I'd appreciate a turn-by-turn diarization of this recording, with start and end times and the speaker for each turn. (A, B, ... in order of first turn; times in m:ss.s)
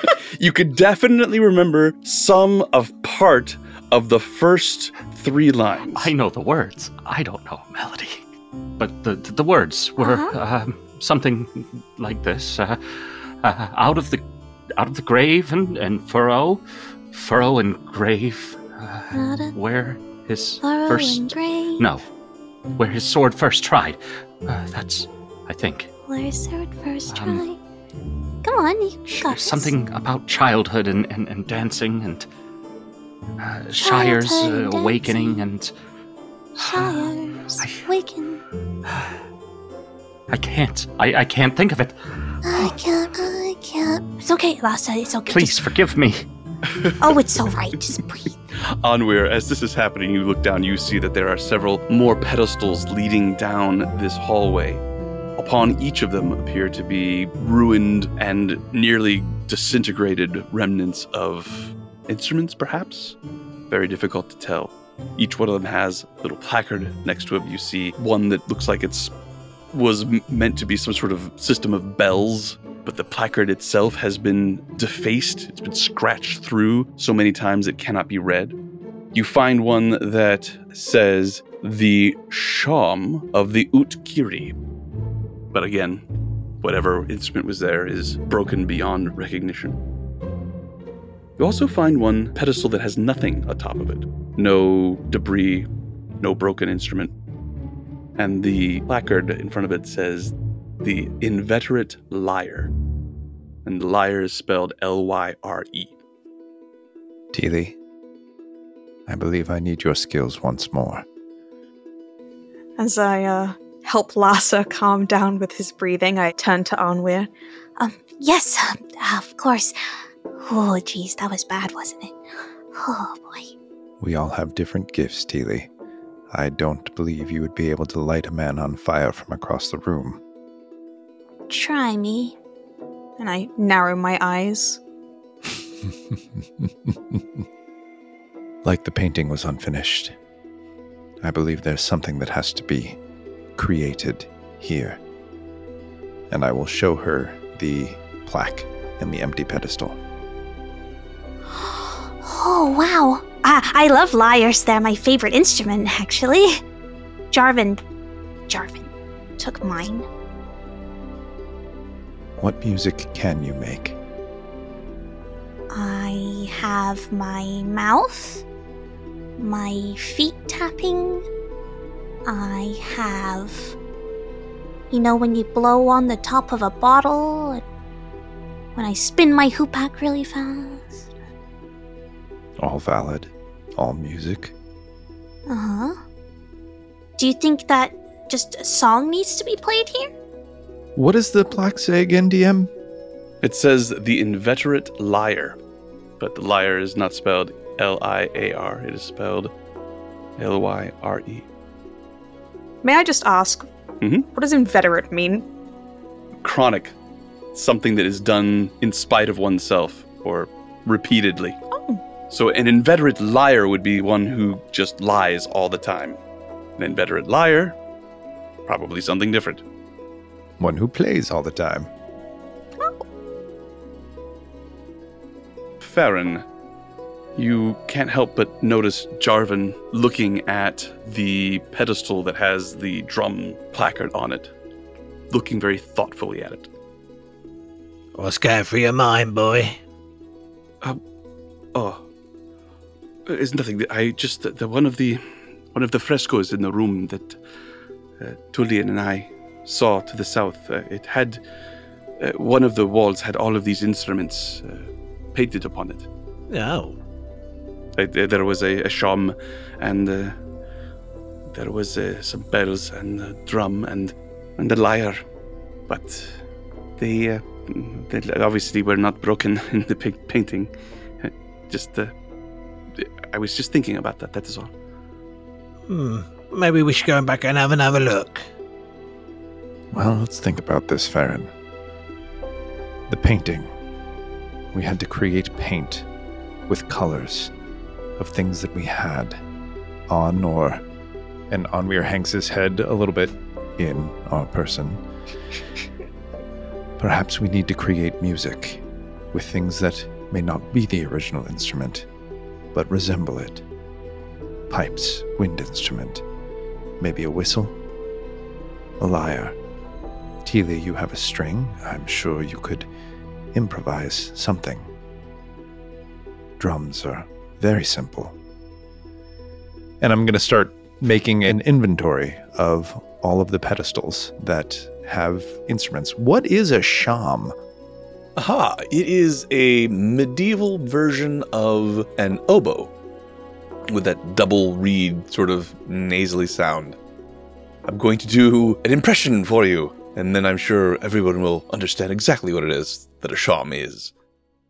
0:00.3-0:06.1 A
0:05.9-0:08.2 B
0:08.8-0:14.2 B
0:10.0-0:10.3 C
0:14.7-0:22.0 B
0:19.1-0:19.5 C
0:20.6-0:21.8 C
0:22.8-0:25.9 B
0:26.1-0:27.6 C
0:27.1-0:27.5 B
0:28.4-0:29.7 C
0:29.2-0:32.2 B
0:33.4-0:35.7 B
0:33.8-0:35.4 C
0:36.6-0:38.4 C
0:36.6-0:37.0 B
0:37.6-0:37.8 B
0:40.3-0:41.9 B
0:42.4-0:45.6 C
0:45.3-0:46.2 B
0:46.6-0:47.2 A
0:47.0-0:48.3 C
0:48.6-0:54.8 A
0:55.4-1:03.2 A
1:03.7-1:09.1 A
1:09.7-1:18.6 A
1:19.1-1:24.6 A
1:25.5-1:26.0 A
1:26.6-1:29.8 A
1:31.4-1:35.7 A
1:36.2-1:37.1 A
1:38.2-1:42.7 A
1:43.6-1:46.0 A
1:47.3-1:47.8 D
1:49.1-1:51.0 D
1:52.8-1:57.3 E
1:57.8-1:59.7 C
2:00.4-2:02.2 C
2:02.7-2:03.5 C
2:04.0-2:05.7 D
2:06.3-2:10.2 D
2:11.5-2:12.4 C
2:13.2-2:14.8 E
2:16.6-2:17.4 D
2:18.6-2:20.2 D
2:21.2-2:23.0 D
2:23.6-2:25.0 D
2:26.3-2:30.0 D
2:31.6-2:36.6 C
2:37.3-2:37.8 C
2:38.5-2:40.1 C
2:42.4-2:44.0 D
2:45.7-2:48.4 C
2:49.4-2:51.2 C
2:52.2-2:53.8 C
2:54.9-2:57.6 C
2:58.8-3:01.0 C
3:02.6-3:04.5 D
3:05.5-3:06.0 C
3:07.2-3:10.1 C
3:11.0-3:12.7 D
3:13.4-3:15.6 A
3:16.2-3:19.5 A
3:20.4-3:21.5 A
3:22.8-3:23.7 E
3:24.0-3:24.3 A
3:24.3-3:25.4 E
3:26.4-3:27.0 A
3:27.5-3:31.6 A
3:31.7-3:32.0 E
3:32.3-3:36.2 A
3:36.8-3:37.8 A
3:38.6-3:39.6 A
3:40.6-3:41.9 D
3:45.8-3:46.4 A
3:47.4-3:54.5 A
3:55.3-3:56.7 A
3:58.2-3:59.8 F
4:01.7-4:02.0 A
4:03.3-4:07.4 A
4:08.2-4:11.4 A
4:12.2-4:16.1 A
4:16.5-4:17.0 F
4:18.0-4:20.4 A
4:21.5-4:25.2 A
4:25.9-4:26.4 A
4:27.0-4:32.1 A
4:33.0-4:34.7 A
4:35.9-4:38.4 F
4:39.9-4:41.5 D
4:43.1-4:43.7 D
4:44.7-4:46.1 D
4:46.7-4:47.5 D
4:48.2-4:49.4 D
4:50.1-4:50.8 D
4:51.5-4:55.0 D
4:57.0-5:02.1 D
5:02.7-5:03.6 D
5:04.7-5:06.2 D
5:07.0-5:07.8 D
5:09.0-5:09.6 D
5:10.4-5:12.9 D
5:13.5-5:14.9 D
5:16.6-5:18.4 D
5:20.0-5:27.5 D
5:28.4-5:32.9 A
5:33.9-5:37.0 A
5:37.8-5:44.1 A